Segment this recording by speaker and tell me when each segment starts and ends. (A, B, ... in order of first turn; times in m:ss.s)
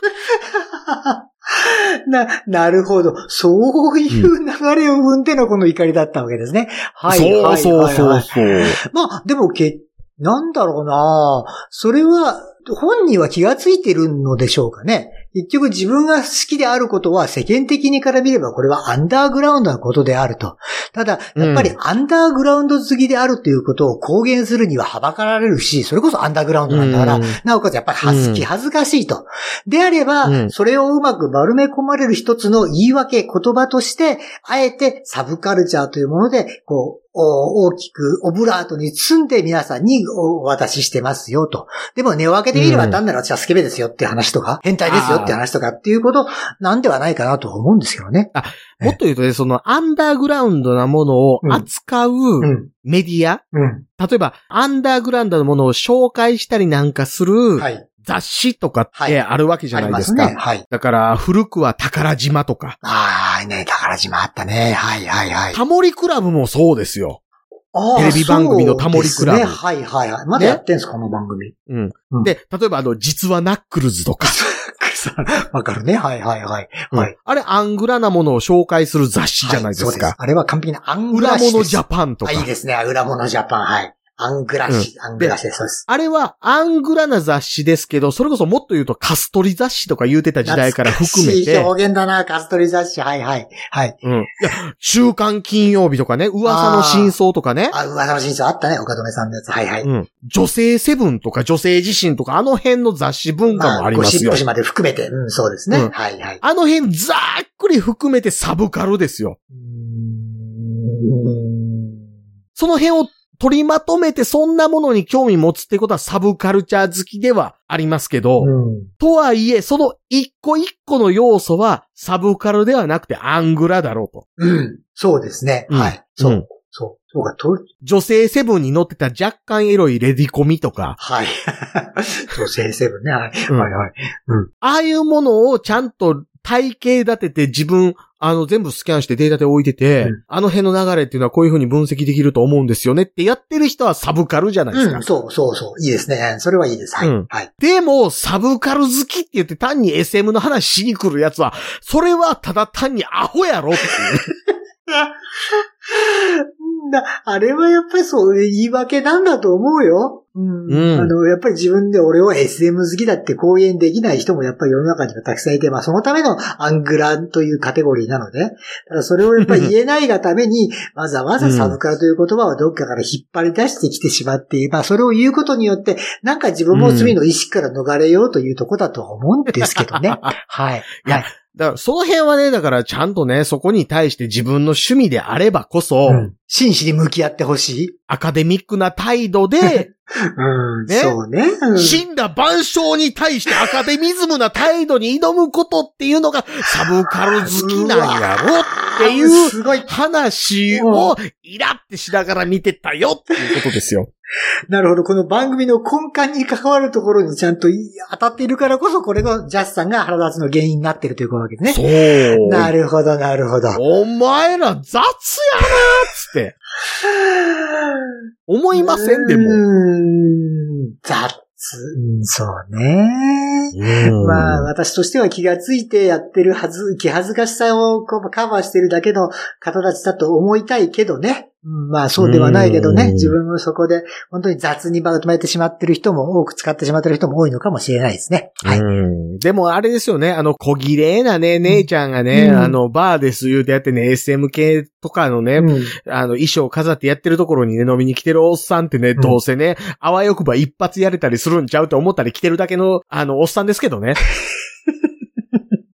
0:00.3-0:49.0 A
0:07.1-0:08.8 B
0:21.4-0:21.7 B
0:26.7-0:27.4 B
0:28.0-0:28.4 B
0:30.2-0:30.5 B
0:42.5-0:43.0 B
0:44.8-0:45.4 B
0:48.3-0:53.4 B
0:52.4-0:52.7 A
0:53.5-0:53.8 A
0:54.0-1:02.8 B
0:57.6-0:57.8 A
0:59.7-1:00.6 A
1:02.8-1:05.6 A
1:05.5-1:07.2 B
1:07.7-1:11.5 A
1:07.9-1:09.6 B
1:10.4-1:10.6 B
1:11.7-1:14.4 B
1:14.2-1:17.1 A
1:16.9-1:20.1 B
1:19.4-1:25.8 A
1:21.1-1:22.5 B
1:24.7-1:25.3 B
1:25.9-1:31.7 B
1:30.4-1:34.0 A
1:34.0-1:37.7 B
1:36.4-1:37.2 A
1:37.7-1:39.9 A
1:39.8-1:44.4 B
1:43.5-1:46.4 A
1:45.7-1:49.4 B
1:49.5-1:52.0 A
1:52.6-2:04.2 B
1:58.4-1:58.9 A
2:04.4-2:07.6 A
2:05.7-2:06.4 B
2:07.8-2:11.0 B
2:11.0-2:14.5 A
2:14.6-2:25.0 B
2:24.7-2:27.5 A
2:27.0-2:34.3 B
2:34.0-3:01.3 A
2:40.7-2:41.1 B
2:49.4-2:49.7 B
2:51.4-2:51.8 B
2:56.7-2:57.2 B
2:59.6-3:00.3 B
3:01.0-3:06.3 B
3:06.0-3:08.0 A
3:08.1-3:09.9 B
3:09.6-3:12.0 A
3:10.9-3:11.2 B
3:11.7-3:24.1 B
3:17.4-3:19.9 A
3:20.7-3:21.2 A
3:24.7-3:33.8 A
3:31.7-3:32.7 B
3:33.7-3:36.6 B
3:36.8-3:38.1 A
3:38.5-3:39.6 B
3:38.7-3:58.8 A
3:43.7-3:44.7 B
3:52.2-3:53.4 B
3:58.6-4:14.2 B
4:01.6-4:02.8 A
4:05.6-4:05.9 A